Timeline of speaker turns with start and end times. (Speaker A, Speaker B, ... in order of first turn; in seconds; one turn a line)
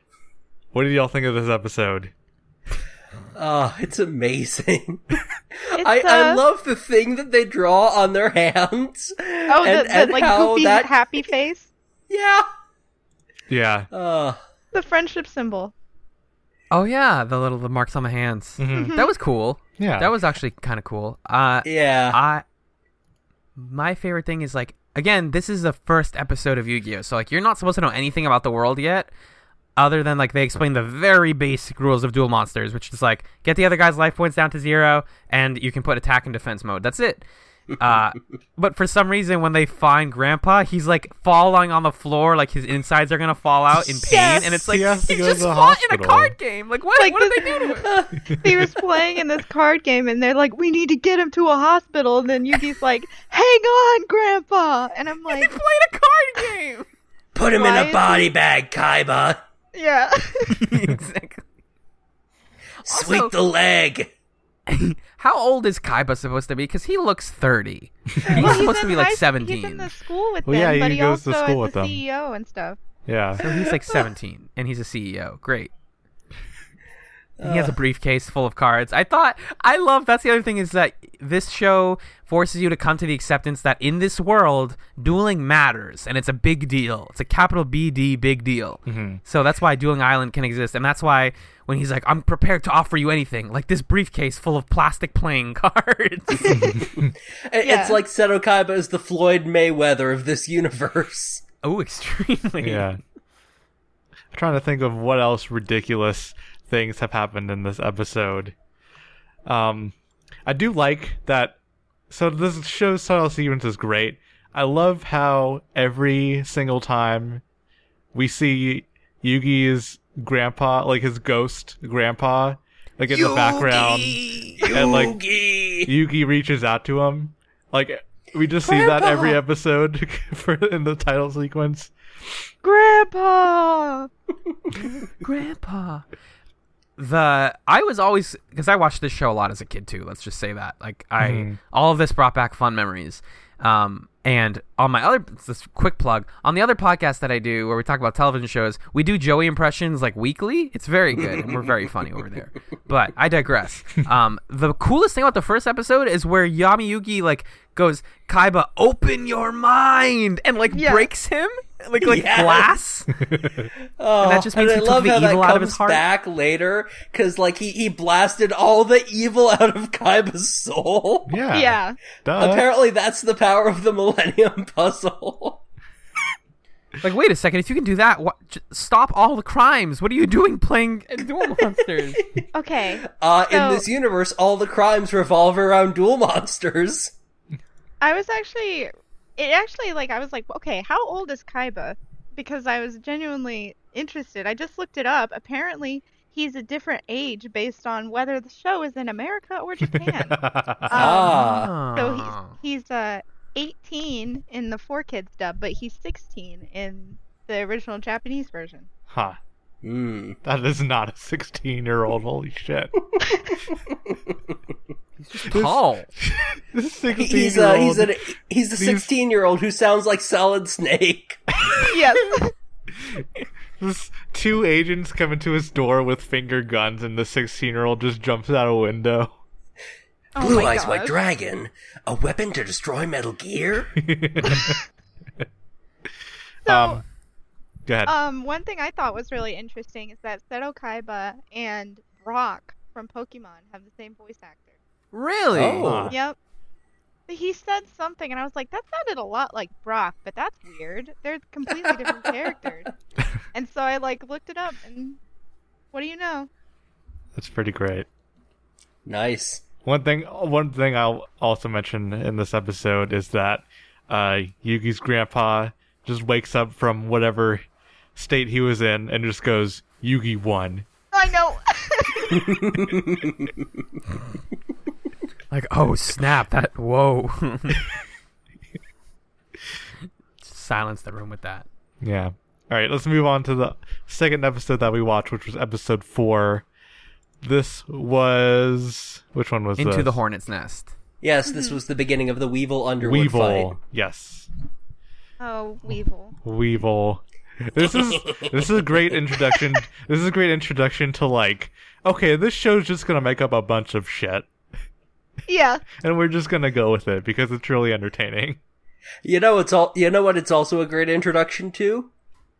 Speaker A: 0.7-2.1
Speaker B: 3.3-11.2
Speaker C: 5.8-6.4
Speaker C: 9.5-11.7
Speaker B: 12.1-12.4
Speaker A: 13.5-13.9
Speaker B: 13.9-14.4
Speaker C: 14.7-15.7
Speaker D: 16.7-22.4
Speaker A: 18.6-19.0
Speaker C: 18.7-19.1
Speaker A: 19.8-20.1
Speaker B: 21.6-22.2
Speaker D: 23.6-29.1
Speaker D: 29.8-37.2
Speaker D: 37.8-47.9
Speaker C: 44.0-44.6
Speaker A: 44.5-46.4
Speaker C: 47.0-55.6
Speaker D: 55.3-56.9
Speaker B: 57.3-59.4
Speaker C: 57.5-58.3
Speaker C: 59.7-60.5
Speaker D: 60.5-61.4
Speaker B: 62.8-64.1
Speaker D: 62.9-63.3
Speaker D: 64.7-69.9
Speaker C: 68.3-72.8
Speaker A: 70.4-72.0
Speaker A: 73.1-73.4
Speaker D: 73.4-75.7
Speaker B: 77.4-77.7
Speaker D: 77.4-96.6
Speaker A: 88.9-89.2
Speaker C: 96.4-96.7
Speaker A: 96.6-97.1
Speaker B: 96.8-101.4
Speaker C: 97.6-98.0
Speaker D: 101.6-102.9
Speaker A: 102.6-103.0
Speaker A: 104.3-108.5
Speaker A: 109.4-109.9
Speaker A: 110.5-111.6
Speaker A: 112.1-117.4
Speaker A: 118.1-125.2
Speaker D: 123.1-124.6
Speaker B: 123.3-125.9
Speaker A: 125.8-131.9
Speaker B: 128.6-129.4
Speaker C: 132.6-134.1
Speaker D: 135.1-136.0
Speaker D: 137.0-163.1
Speaker A: 141.2-141.6
Speaker C: 160.7-161.1
Speaker B: 162.0-162.7
Speaker A: 163.1-163.7
Speaker B: 164.0-171.4
Speaker D: 164.2-166.0
Speaker A: 171.3-172.6
Speaker C: 171.5-172.0
Speaker B: 172.3-175.6
Speaker D: 177.0-182.2
Speaker C: 182.5-183.8
Speaker B: 183.2-187.1
Speaker C: 188.0-208.9
Speaker A: 199.9-201.2
Speaker B: 200.9-201.7
Speaker D: 201.5-202.6
Speaker A: 209.1-209.4
Speaker B: 209.8-210.4
Speaker A: 210.4-212.9
Speaker D: 215.2-216.1
Speaker A: 215.5-218.1
Speaker B: 217.1-221.4
Speaker A: 218.8-219.1
Speaker C: 221.8-222.5
Speaker A: 223.8-229.3
Speaker C: 230.3-231.2
Speaker B: 230.4-234.0
Speaker A: 234.0-234.8
Speaker C: 234.5-234.8
Speaker C: 236.6-237.0
Speaker A: 236.7-237.0
Speaker A: 237.8-238.1
Speaker C: 238.1-244.7
Speaker D: 245.1-246.1
Speaker B: 245.5-246.1
Speaker A: 245.8-246.1
Speaker C: 246.1-246.4
Speaker C: 247.3-252.9
Speaker C: 253.5-255.2
Speaker C: 255.9-256.5
Speaker A: 257.3-258.1
Speaker B: 259.1-259.6
Speaker A: 259.8-267.6
Speaker A: 268.1-270.9
Speaker C: 271.1-272.5
Speaker B: 272.4-273.5
Speaker D: 275.5-277.8
Speaker D: 280.4-281.6
Speaker A: 282.0-286.6
Speaker A: 287.4-290.2
Speaker D: 289.8-290.9
Speaker B: 291.2-293.7
Speaker C: 291.5-291.8
Speaker A: 293.0-294.5
Speaker C: 295.4-296.4
Speaker A: 296.4-304.5
Speaker B: 297.9-298.5
Speaker C: 305.5-305.8
Speaker A: 305.9-308.6
Speaker B: 309.2-312.1